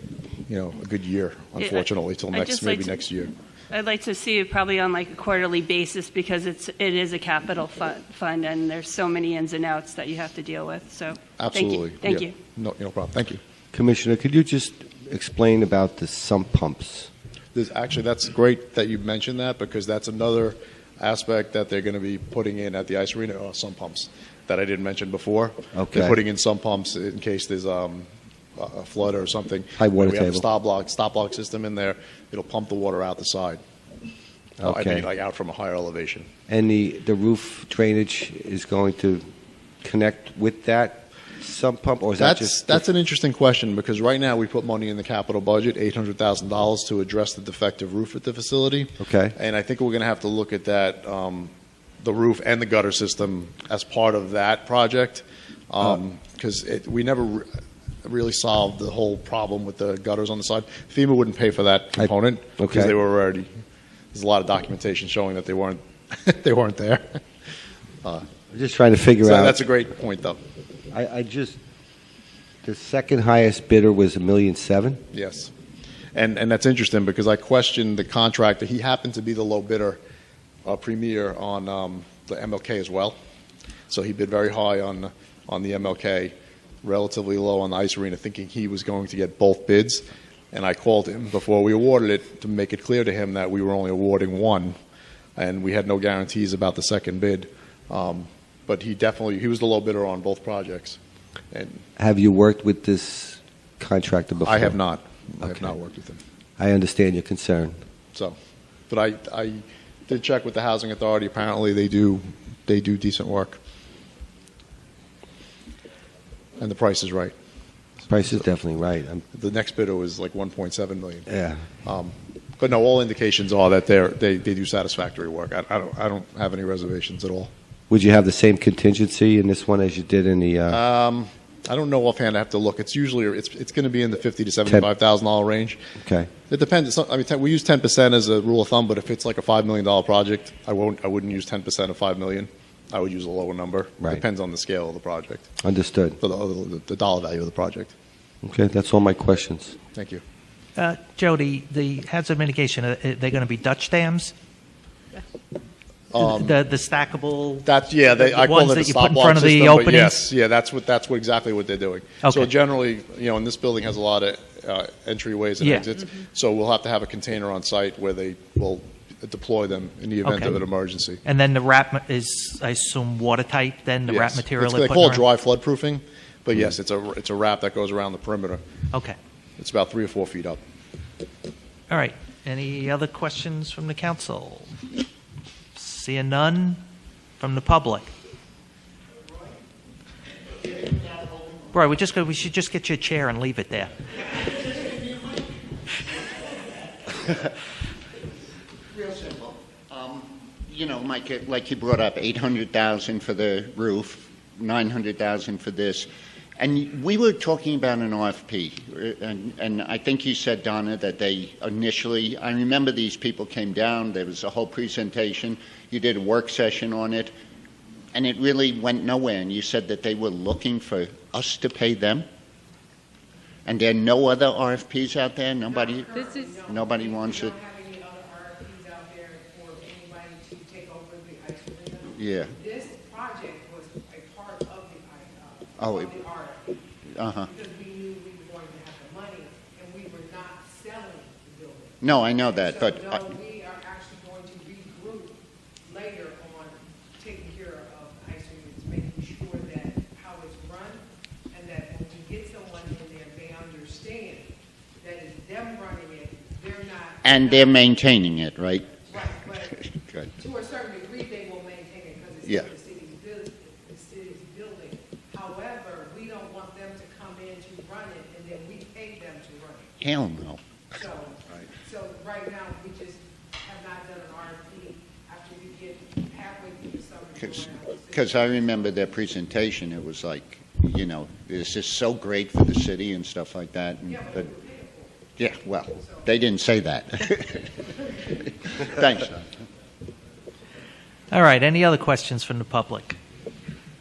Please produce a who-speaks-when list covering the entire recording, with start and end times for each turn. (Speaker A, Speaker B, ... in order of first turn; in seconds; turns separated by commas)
Speaker A: 0.5-3.3, Speaker B: 1.6-2.9, Speaker B: 3.7-12.3, Speaker A: 11.4-13.4, Speaker C: 13.7-17.1, Speaker A: 17.5-33.6, Speaker C: 25.7-26.2, Speaker C: 29.8-30.4, Speaker C: 34.6-35.1, Speaker A: 34.6-36.3, Speaker C: 36.5-39.2, Speaker C: 39.8-42.8, Speaker A: 42.2-63.5, Speaker C: 49.0-49.3, Speaker C: 62.0-62.9, Speaker A: 64.1-67.2, Speaker A: 68.0-68.3, Speaker C: 68.5-69.6, Speaker A: 69.2-70.4, Speaker C: 70.9-71.6, Speaker C: 72.6-75.0, Speaker A: 75.1-75.5, Speaker A: 76.1-80.0, Speaker A: 80.6-83.2, Speaker A: 83.9-94.8, Speaker A: 95.4-101.0, Speaker A: 101.5-101.8, Speaker C: 102.0-104.8, Speaker A: 104.4-106.2, Speaker C: 106.6-107.8, Speaker A: 108.9-113.6, Speaker A: 116.6-117.3, Speaker C: 118.1-119.2, Speaker A: 119.3-121.3, Speaker C: 121.3-121.7, Speaker A: 121.8-127.5, Speaker C: 127.9-130.8, Speaker A: 130.7-135.8, Speaker C: 136.0-136.3, Speaker A: 136.5-145.5, Speaker C: 145.6-146.2, Speaker A: 146.2-147.9, Speaker C: 148.4-149.8, Speaker A: 149.9-150.2, Speaker D: 150.8-154.3, Speaker A: 156.1-156.6, Speaker D: 156.2-160.2, Speaker A: 157.7-171.2, Speaker D: 162.2-162.5, Speaker D: 165.6-165.9, Speaker D: 170.2-170.6, Speaker D: 171.2-175.2, Speaker A: 174.1-178.6, Speaker A: 179.6-180.6, Speaker D: 181.9-184.7, Speaker D: 185.8-186.8, Speaker D: 187.4-188.1, Speaker E: 190.8-191.5, Speaker D: 191.7-193.9, Speaker E: 194.7-195.2, Speaker E: 197.1-197.3, Speaker E: 198.9-217.3, Speaker E: 218.1-222.2, Speaker E: 223.7-227.6, Speaker F: 225.7-236.7, Speaker E: 232.2-232.5, Speaker E: 235.8-236.3, Speaker E: 237.1-237.5, Speaker F: 237.5-242.0, Speaker E: 242.0-243.3, Speaker F: 242.6-257.9, Speaker E: 257.2-260.3, Speaker F: 259.1-259.8, Speaker F: 260.4-269.9, Speaker E: 270.0-270.6, Speaker F: 271.0-278.9, Speaker E: 277.4-284.5, Speaker F: 284.1-285.1, Speaker E: 285.4-287.9, Speaker E: 288.6-289.5, Speaker D: 291.3-293.2